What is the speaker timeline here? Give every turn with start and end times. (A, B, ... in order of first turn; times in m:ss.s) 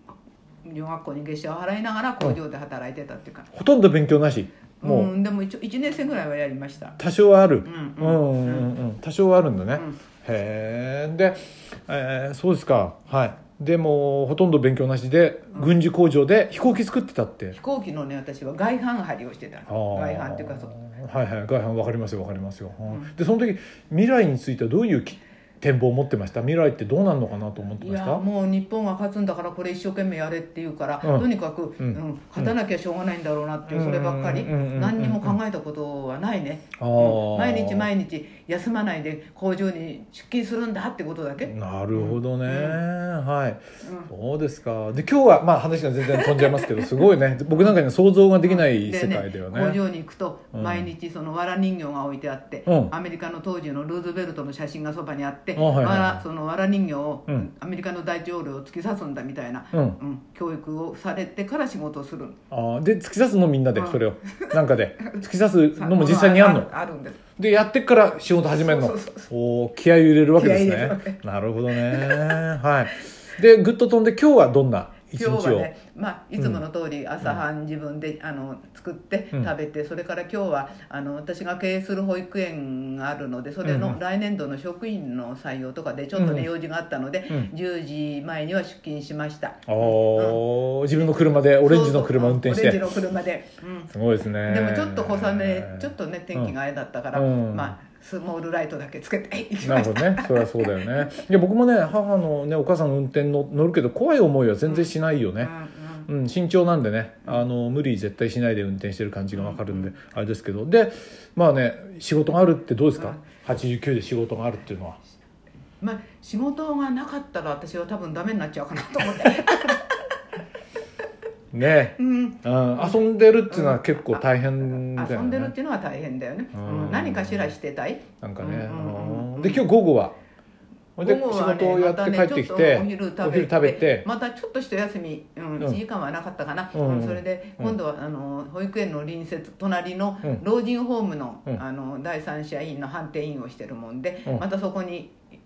0:00.6-0:03.5 A
0:03.5-0:05.1 B
0:04.8-0:07.0 A
0:07.0-0:17.6 B
0:07.6-0:08.7 A
0:17.5-0:20.7 A
0:19.7-0:28.2 B
0:22.9-0:23.1 A
0:27.8-0:42.8 A
0:31.8-0:32.5 B
0:33.7-0:35.4 B
0:36.8-0:37.9 B
0:41.4-0:49.8 B
0:43.8-0:44.1 A
0:46.1-0:46.8 A
0:48.4-1:02.4 A
0:50.5-0:50.9 B
0:52.7-0:52.9 B
0:55.6-0:56.2 B
1:02.5-1:06.7 B
1:03.7-1:05.2 A
1:05.7-1:07.2 A
1:07.4-1:15.7 B
1:08.5-1:09.3 A
1:10.4-1:12.4 A
1:15.1-1:30.4 A
1:23.6-1:24.0 B
1:26.1-1:26.5 B
1:29.7-1:33.0 B
1:31.6-1:41.1 A
1:33.9-1:35.8 B
1:37.1-1:37.7 B
1:39.6-1:45.5 B
1:44.6-1:46.1 A
1:46.1-1:55.0 B
1:49.3-1:49.9 A
1:55.8-2:00.0 A
2:01.5-2:05.5 B
2:02.0-2:09.6 A
2:06.5-2:07.5 B
2:08.2-2:10.1 B
2:11.0-2:14.0 B
2:11.0-2:25.2 A
2:16.7-2:17.8 B